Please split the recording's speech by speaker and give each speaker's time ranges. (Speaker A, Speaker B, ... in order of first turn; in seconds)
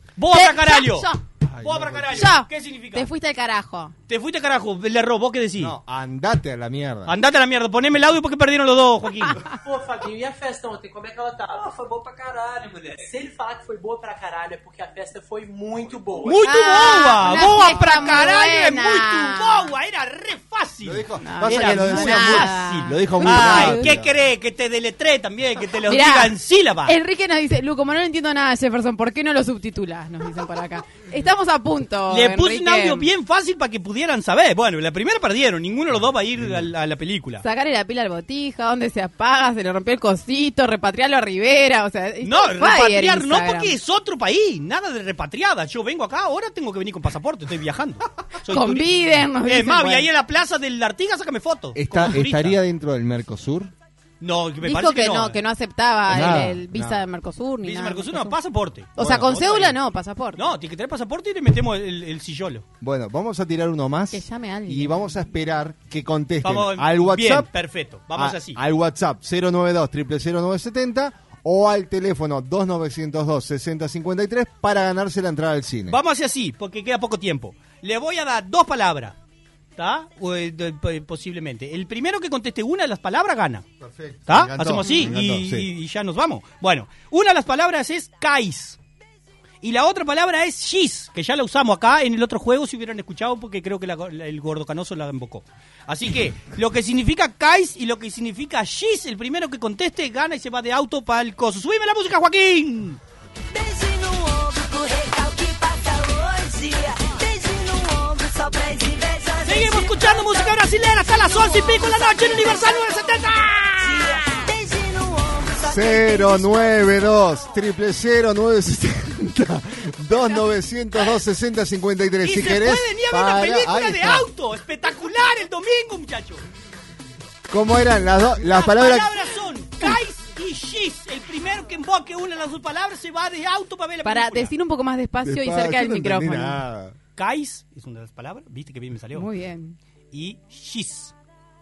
Speaker A: 0.2-1.1, 1.6-3.1, 4.1-5.7, 7.0-9.4, 16.2-27.0, 32.1-37.4, 42.2-52.6, 54.2-55.4, 56.1-56.4, 57.6-59.8, 60.3-62.6, 66.4-68.6, 75.9-79.1, 79.8-83.6, 84.3-88.8, 89.6-103.0, 109.4-114.1, 122.2-126.4, 128.4-134.5, 137.2-139.3, 140.1-141.1
Speaker B: 0.3-1.2, 2.1-3.9, 16.4-19.7, 21.2-23.9, 25.9-26.3, 26.9-33.1, 37.4-43.7, 48.5-50.1, 54.6-58.3, 59.0-60.5, 64.1-65.2, 84.8-85.1, 134.0-136.6, 139.1-139.8
Speaker C: 1.4-2.3, 5.6-7.1, 20.8-24.2, 36.4-36.7, 51.7-53.7, 56.1-57.0, 62.8-67.5, 68.1-76.0, 83.8-85.7, 115.6-124.3, 127.5-129.1, 135.2-136.9
Speaker D: 9.6-16.4
Speaker E: 103.5-110.5, 111.3-112.8, 113.8-116.7